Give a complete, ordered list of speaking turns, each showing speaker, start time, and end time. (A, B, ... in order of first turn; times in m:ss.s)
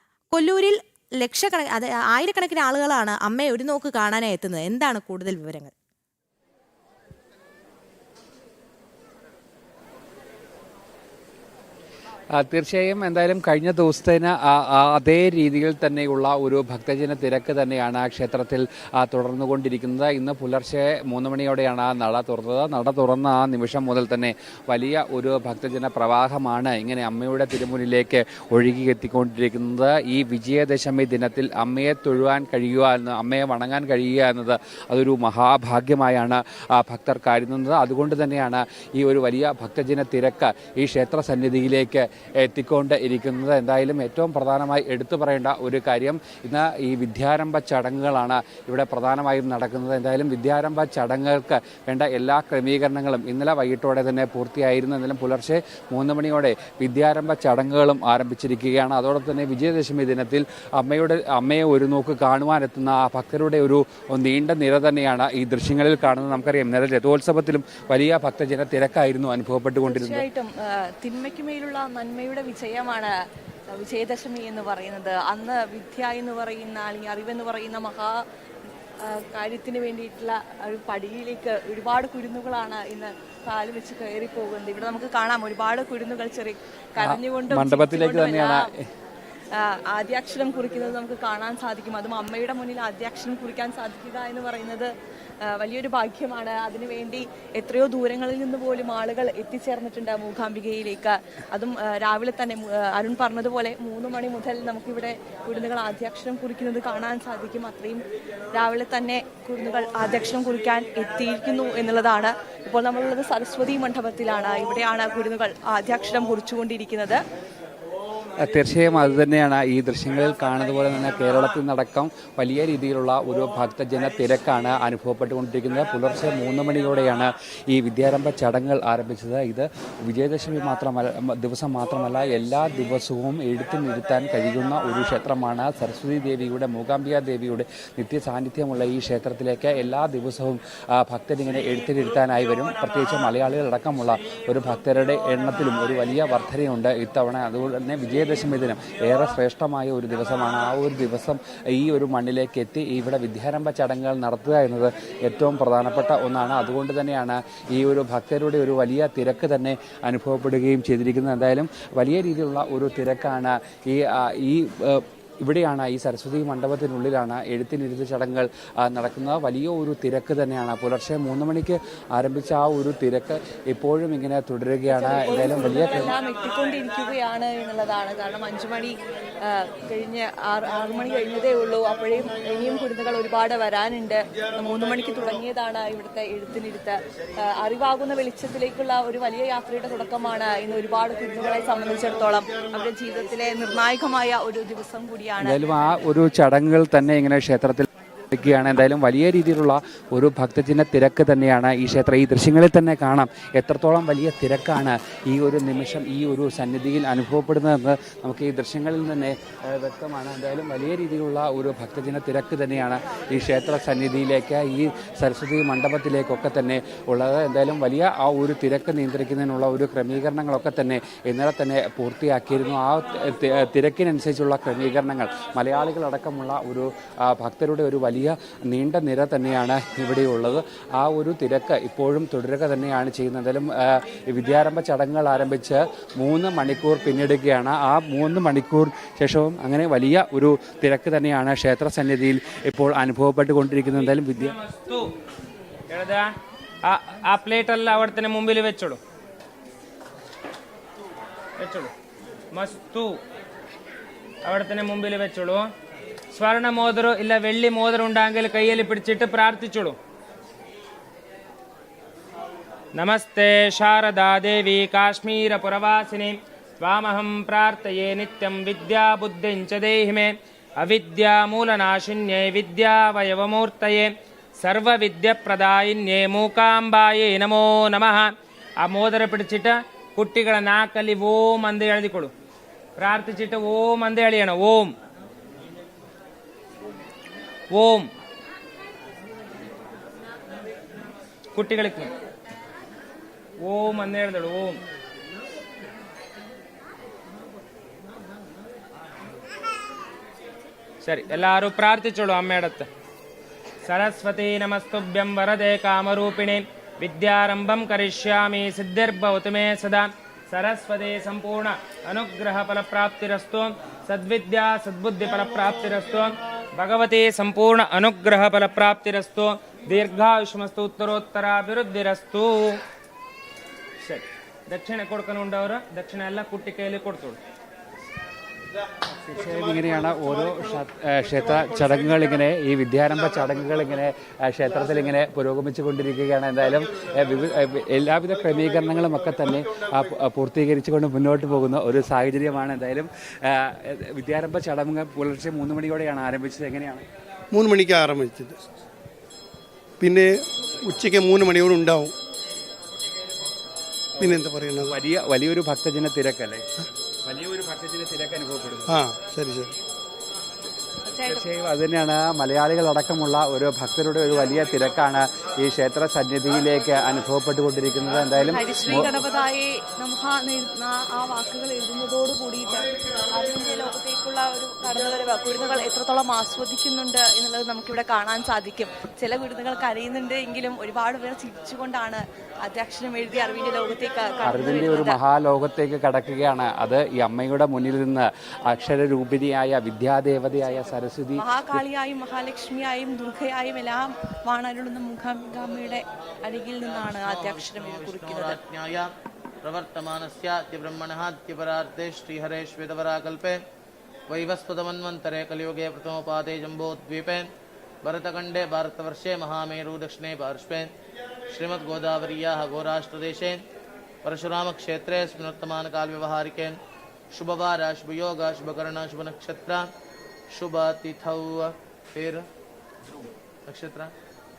0:00.3-0:05.7 A
0:12.3-1:10.2 B
1:09.8-1:13.1 C
1:13.7-1:18.1 C
1:19.0-1:28.7 C
1:27.0-1:28.7 B
1:29.5-1:34.9 C
1:35.4-1:57.2 C
1:58.4-2:56.1 B
2:54.9-3:15.6 C
3:15.4-4:04.6 B
4:04.7-4:05.1 D
4:05.9-4:06.3 D
4:06.8-4:09.0 D
4:11.6-4:11.9 D
4:12.5-4:13.2 D
4:14.4-4:15.7 D
4:16.3-4:20.0 D
4:22.9-4:38.3 D
4:38.8-4:42.3 D
4:43.0-4:44.9 D
4:47.7-4:48.1 D
4:51.5-4:52.1 D
4:53.6-4:54.8 D
5:01.0-5:02.9 D
5:03.8-5:22.8 D
5:24.0-5:27.4 D
5:29.3-5:47.0 B
5:31.6-5:32.2 E
5:47.5-5:48.6 E
5:50.0-5:52.1 E
5:54.2-5:56.6 B
5:54.2-5:54.9 E
5:57.2-5:59.0 B
5:58.9-5:59.8 E
6:01.1-6:01.4 C
6:01.2-6:09.1 B
6:08.4-6:25.2 C
6:24.4-6:31.8 B
6:31.4-6:38.6 C
6:36.8-6:39.1 F
6:39.6-6:43.6 F
6:44.3-6:47.5 F
6:48.0-6:50.9 F
6:51.5-6:53.6 F
6:54.2-6:56.8 F
6:57.3-6:59.8 F
7:00.5-7:02.4 F
7:03.7-7:04.1 F